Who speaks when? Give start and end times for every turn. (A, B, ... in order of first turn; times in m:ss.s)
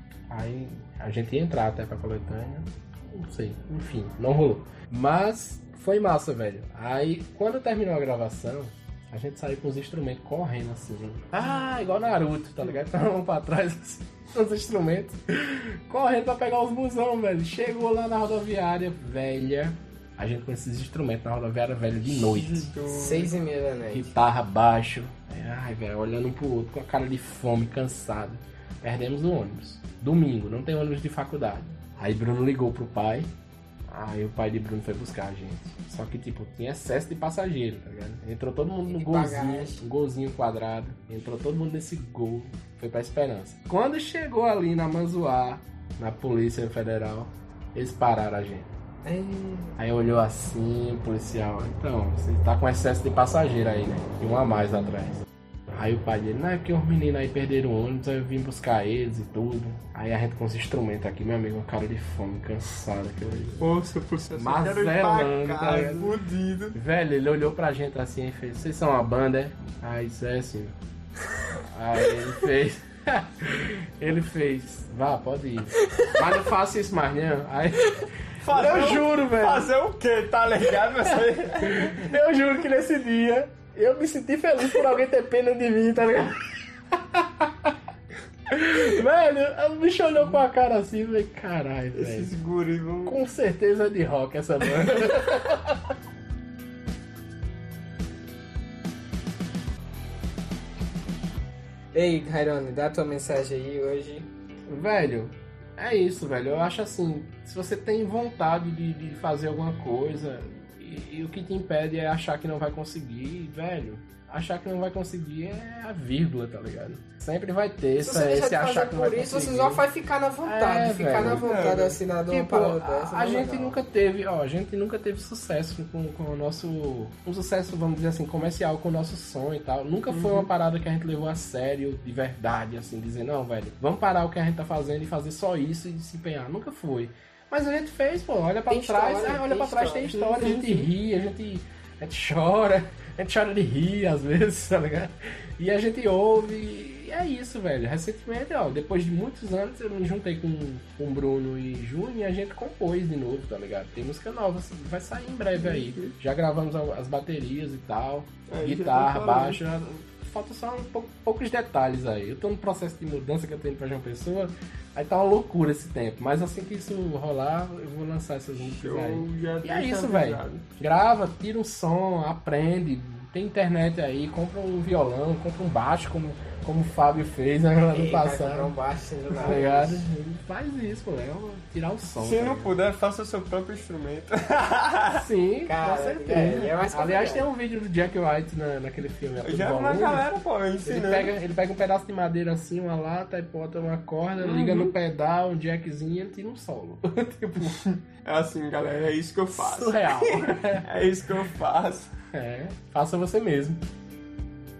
0:00.3-0:22.7 A
0:22.2-0:23.3 B
0:22.9-0:24.1 C
0:23.9-0:33.3 A
0:33.9-0:48.7 A
0:38.9-0:39.8 C
0:49.0-0:49.8 C
0:49.8-1:03.7 A
1:03.6-1:06.8 B
1:04.4-1:06.2 A
1:06.7-1:10.7 A
1:11.7-1:19.7 A
1:18.4-1:22.1 B
1:21.6-1:27.8 A
1:28.5-1:32.3 A
1:31.9-1:33.2 B
1:33.0-1:35.9 A
1:41.9-1:44.3 C
1:44.7-1:59.8 A
1:58.0-2:03.8 C
2:00.4-2:01.4 A
2:01.2-2:02.0 B
2:02.3-2:58.7 A
2:10.1-2:10.5 B
2:18.7-2:20.6 C
2:20.3-2:20.8 B
2:35.6-2:36.1 B
2:38.5-2:39.6 B
2:48.6-2:50.6 B
2:57.9-3:00.1 C
2:59.4-3:02.7 A
3:02.2-3:05.2 B
3:05.1-3:10.3 A
3:05.6-3:07.4 C
3:09.4-3:11.3 B
3:10.8-3:17.8 A
3:14.4-3:14.9 B
3:17.8-3:22.1 B
3:19.5-3:20.9 A
3:22.3-3:23.8 A